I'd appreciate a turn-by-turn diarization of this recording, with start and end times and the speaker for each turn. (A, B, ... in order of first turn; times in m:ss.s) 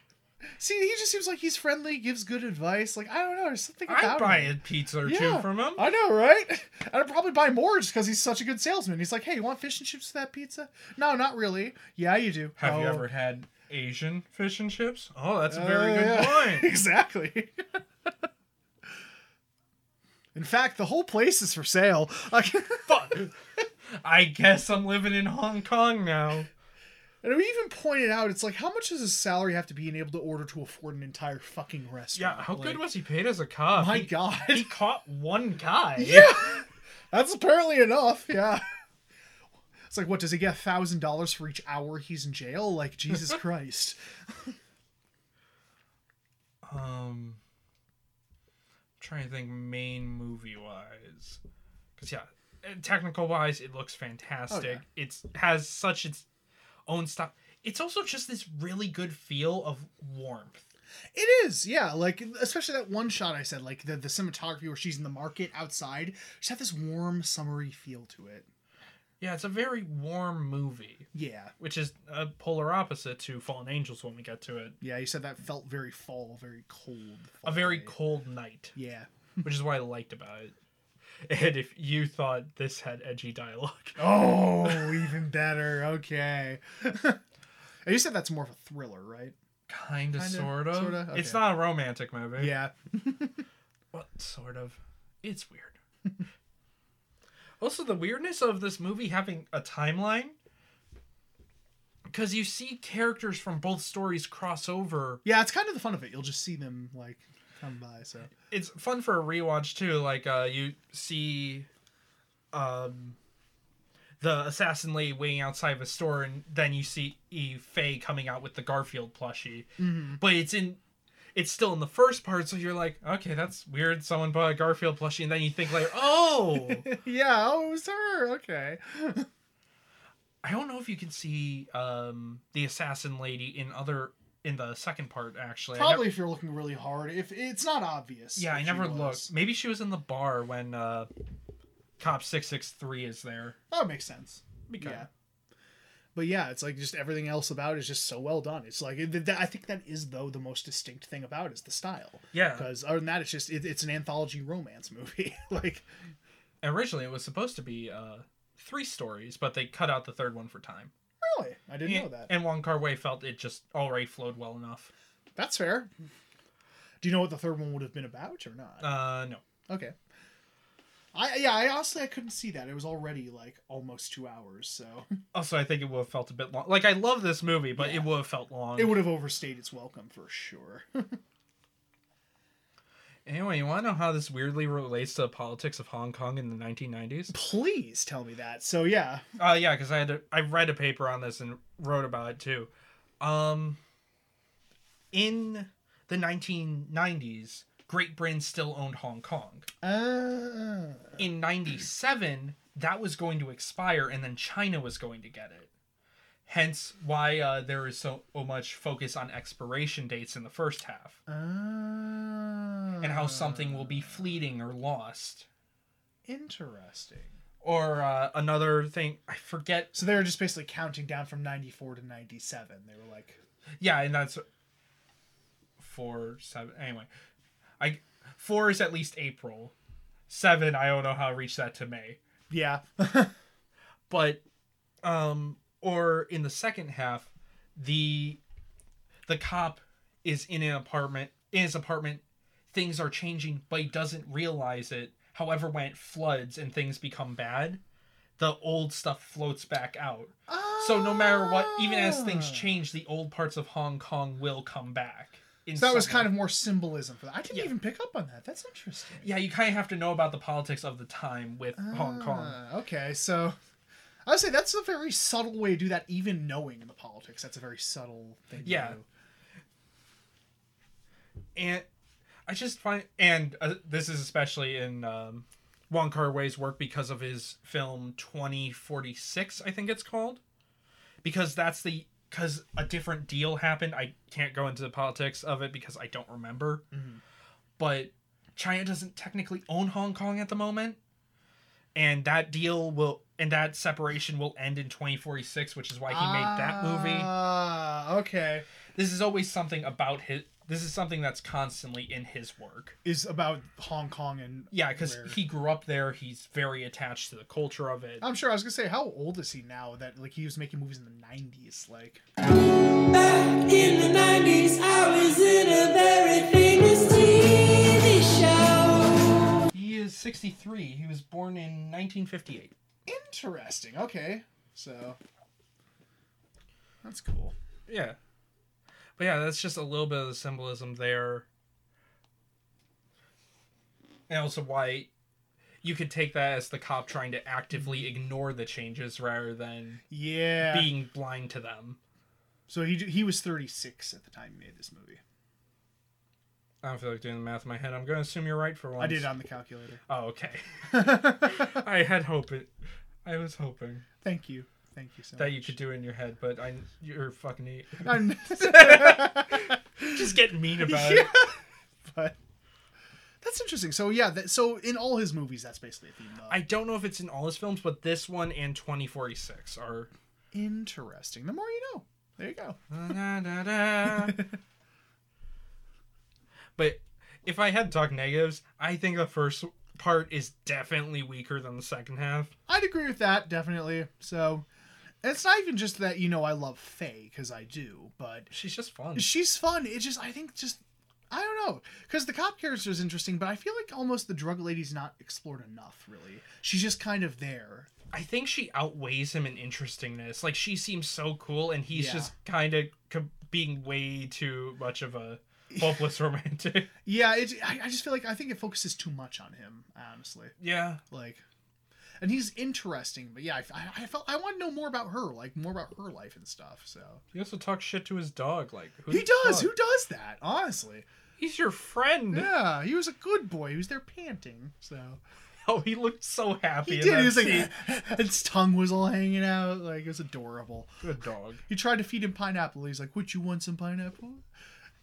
0:00.5-0:13.1 A
0:03.9-0:05.9 B
0:12.6-0:16.7 B
0:15.5-0:18.1 A
0:20.3-0:23.1 A
0:22.9-0:23.3 B
0:24.0-0:26.5 B
0:27.2-0:32.8 A
0:32.2-0:36.4 B
0:33.7-0:34.7 A
0:36.0-0:38.6 A
0:39.9-0:44.6 A
0:46.6-0:47.4 B
0:49.0-0:51.4 B
0:52.0-0:56.3 B
0:54.5-0:54.8 A
0:56.9-1:00.7 B
1:01.1-1:08.5 A
1:09.2-1:11.1 B
1:11.1-1:11.5 A
1:11.6-1:14.8 B
1:14.8-1:18.0 A
1:17.4-1:18.8 B
1:18.8-1:19.1 A
1:19.4-1:20.5 B
1:21.3-1:24.0 B
1:24.0-1:27.2 A
1:27.8-1:29.4 A
1:29.7-1:32.6 B
1:30.2-1:31.6 A
1:32.4-1:33.4 A
1:33.9-1:35.8 B
1:37.6-1:40.4 B
1:42.1-1:45.2 B
1:45.2-1:48.3 A
1:48.5-1:51.7 B
1:52.5-1:53.2 B
1:54.2-2:00.8 B
1:59.8-2:00.2 A
2:01.4-2:06.9 B
2:06.6-2:09.3 A
2:10.4-2:16.1 B
2:15.7-2:19.3 A
2:18.4-2:21.1 B
2:22.0-2:23.6 B
2:23.7-2:25.1 A
2:24.7-2:25.1 B
2:26.2-2:35.9 A
2:32.3-2:32.7 B
2:36.6-2:40.9 B
2:41.2-2:42.3 A
2:41.8-2:44.9 B
2:45.4-2:45.9 A
2:47.0-2:49.0 A
2:48.8-2:49.4 B
2:49.7-2:50.0 A
2:51.1-2:55.2 A
2:55.3-2:59.1 B
2:57.8-2:58.1 A
2:58.8-3:01.2 A
3:03.3-3:07.4 B
3:07.3-3:09.2 A
3:09.4-3:12.7 B
3:13.2-3:13.8 B
3:15.1-3:19.7 B
3:19.8-3:21.2 A
3:21.2-3:25.7 B
3:26.5-3:31.2 B
3:31.3-3:34.3 A
3:33.0-3:35.5 B
3:36.2-3:37.4 A
3:37.6-3:40.0 B
3:39.9-3:43.4 A
3:43.8-3:44.4 B
3:45.8-3:47.1 B
3:47.8-3:49.7 B
3:50.3-3:52.2 B
3:52.5-3:53.3 A
3:54.1-3:54.4 B
3:55.0-3:58.4 B
3:59.3-4:07.8 B
4:08.4-4:16.4 B
4:10.5-4:12.8 A
4:15.8-4:19.3 A
4:19.2-4:22.6 B
4:21.8-4:23.6 A
4:24.3-4:29.1 A
4:28.6-4:29.0 B
4:31.6-4:31.9 B
4:32.5-4:40.4 B
4:41.2-4:46.8 B
4:46.9-4:47.2 A
4:47.8-4:51.0 B
4:52.0-4:57.3 B
4:56.1-4:58.7 A
4:59.0-5:03.0 B
5:03.0-5:05.4 A
5:04.7-5:08.2 B
5:08.2-5:12.2 A
5:12.8-5:19.6 C
5:19.7-5:22.7 B
5:23.1-5:25.2 A
5:27.0-5:27.6 A
5:27.9-5:28.2 B
5:29.2-5:31.5 B
5:34.3-5:35.1 B
5:35.8-5:40.0 B
5:40.1-5:40.9 A
5:40.6-5:42.0 B
5:42.7-5:45.2 A
5:46.8-5:49.3 B
5:49.0-5:50.0 A
5:50.1-5:52.7 B
5:50.9-5:51.8 A
5:53.2-5:54.1 B
5:54.2-5:55.8 A
5:55.4-6:01.3 B
5:58.0-6:00.2 A
6:00.8-6:02.4 A
6:03.4-6:06.6 A
6:06.5-6:10.1 B
6:10.5-6:12.8 A
6:12.9-6:14.5 B
6:14.1-6:14.4 A
6:16.8-6:22.5 B
6:22.7-6:24.7 A
6:25.2-6:28.5 A
6:28.5-6:29.3 B
6:29.2-6:37.9 A
6:38.1-6:46.9 B
6:41.9-6:42.3 A
6:47.0-6:50.5 A
6:50.6-6:51.0 B
6:51.1-6:51.4 A
6:52.2-6:57.2 A
6:57.3-6:59.7 B
6:59.1-7:01.1 A
7:01.4-7:02.6 B
7:02.3-7:05.2 A
7:05.7-7:07.7 B
7:06.8-7:10.9 A
7:11.0-7:11.6 B
7:11.7-7:14.4 A